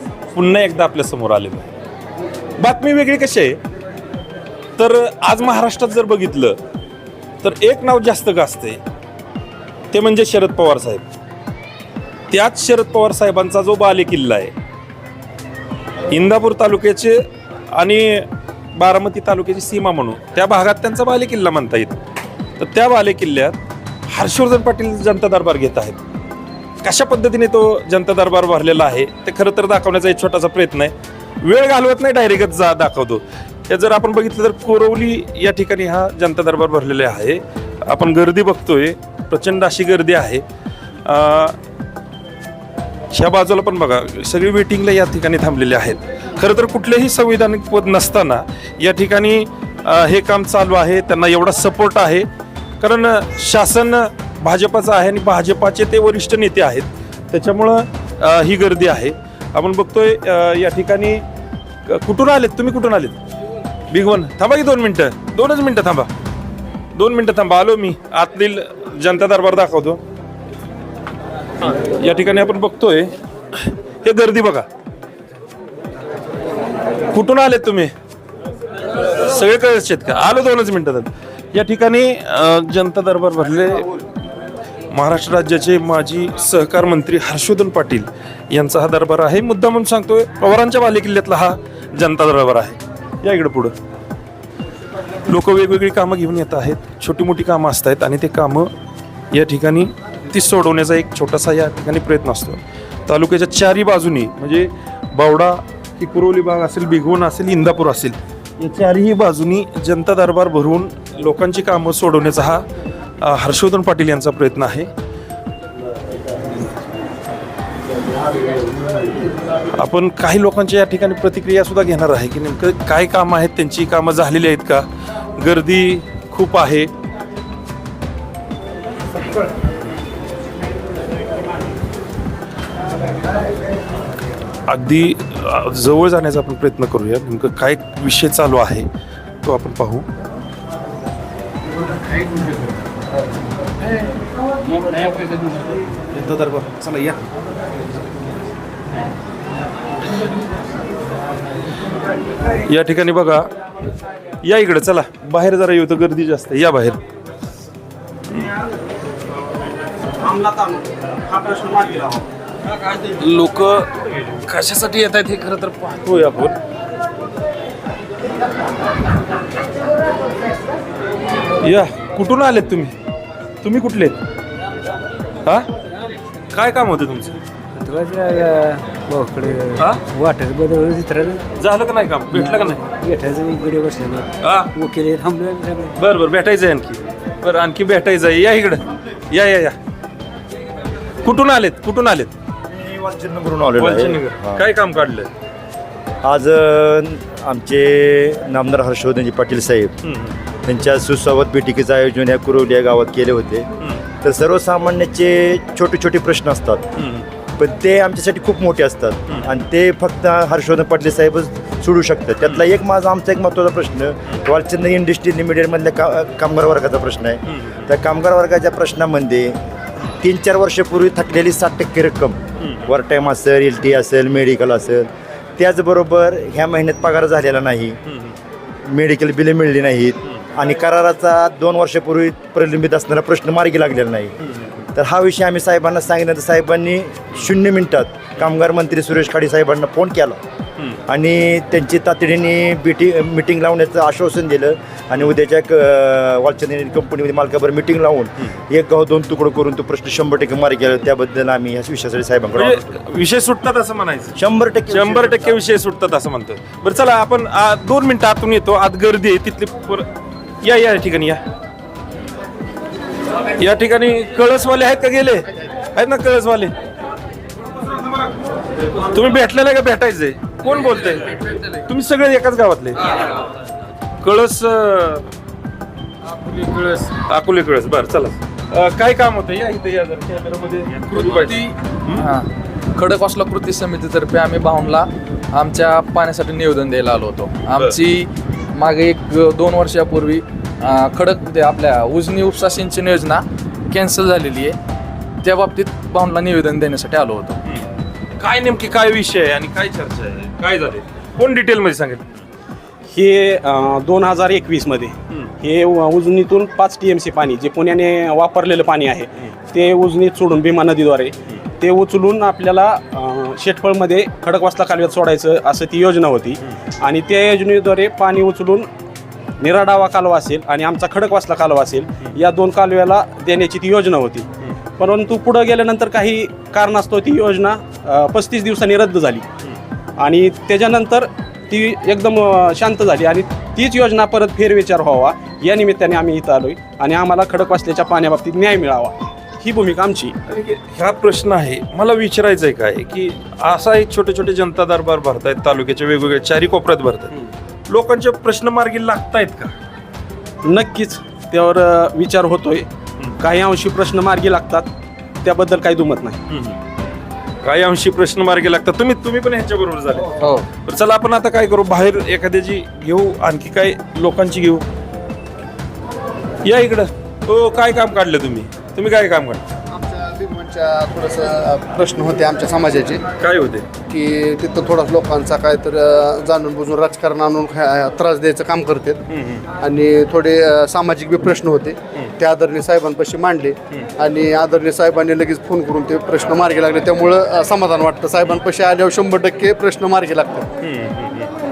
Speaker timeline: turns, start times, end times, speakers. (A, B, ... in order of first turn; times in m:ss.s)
0:00.3-0:01.7 A
0:02.6-0:03.6 A
0:04.8-0:06.6 A
0:07.4-0:08.8 A
0:09.9-0:11.0 A
0:12.3-0:14.5 A
0:16.1-0:22.0 A
0:22.6-0:23.6 A
0:24.1-0:26.0 A
0:26.8-0:40.4 A
0:41.0-0:41.6 A
0:43.1-0:52.3 A
0:52.8-1:01.2 A
1:01.8-1:03.2 A
1:03.9-1:06.1 A
1:06.9-1:10.0 A
1:11.8-1:13.1 A
1:13.6-1:14.6 A
1:17.1-1:17.9 A
1:19.0-1:23.9 A
1:24.9-1:33.7 A
1:35.3-1:38.7 A
1:39.3-1:52.6 A
1:53.2-1:54.9 A
1:59.7-2:06.9 A
2:14.7-2:18.9 A
2:19.4-2:20.1 A
2:26.2-2:26.9 B
2:32.6-2:33.5 A
2:34.4-2:37.0 A
2:40.2-2:42.2 C
2:42.9-2:46.6 A
2:51.6-2:52.9 A
2:53.6-2:54.2 A
2:56.5-2:57.4 A
2:57.8-3:01.4 D
2:59.8-3:00.0 A
3:01.6-3:02.9 A
3:02.6-3:05.9 D
3:04.4-3:04.7 A
3:06.0-3:09.8 A
3:11.2-3:12.3 A
3:12.7-3:14.6 B
3:13.8-3:15.3 A
3:16.2-3:19.9 B
3:20.0-3:20.4 A
3:20.6-3:23.7 B
3:24.2-3:26.8 B
3:27.0-3:27.3 A
3:27.6-3:39.6 B
3:37.5-3:37.9 A
3:40.2-3:48.0 B
3:42.6-3:42.9 A
3:48.1-3:48.4 A
3:48.8-3:54.3 B
3:54.4-3:54.8 A
3:54.9-4:00.4 B
4:01.1-4:13.0 B
4:12.6-4:14.4 A
4:14.4-4:15.6 B
4:14.9-4:20.0 A
4:20.6-4:21.4 A
4:23.6-4:26.7 A
4:29.1-4:33.3 A
4:34.2-4:35.3 A
4:36.6-4:42.3 A
4:42.2-4:54.8 E
4:55.4-4:57.6 E
4:58.4-5:02.4 A
5:03.1-5:18.9 C
5:19.6-5:29.5 C
5:30.2-5:40.3 C
5:40.4-5:47.4 A
5:47.9-5:49.7 A
5:50.6-5:52.9 C
5:53.4-5:54.9 C
5:55.4-5:56.4 C
5:56.5-5:56.8 A
5:57.6-6:04.8 A
6:00.4-6:00.7 E
6:06.6-6:09.6 A
6:09.9-6:13.2 F
6:13.4-6:13.9 A
6:14.1-6:19.2 F
6:19.3-6:19.6 A
6:19.8-6:30.7 F
6:30.8-6:31.5 A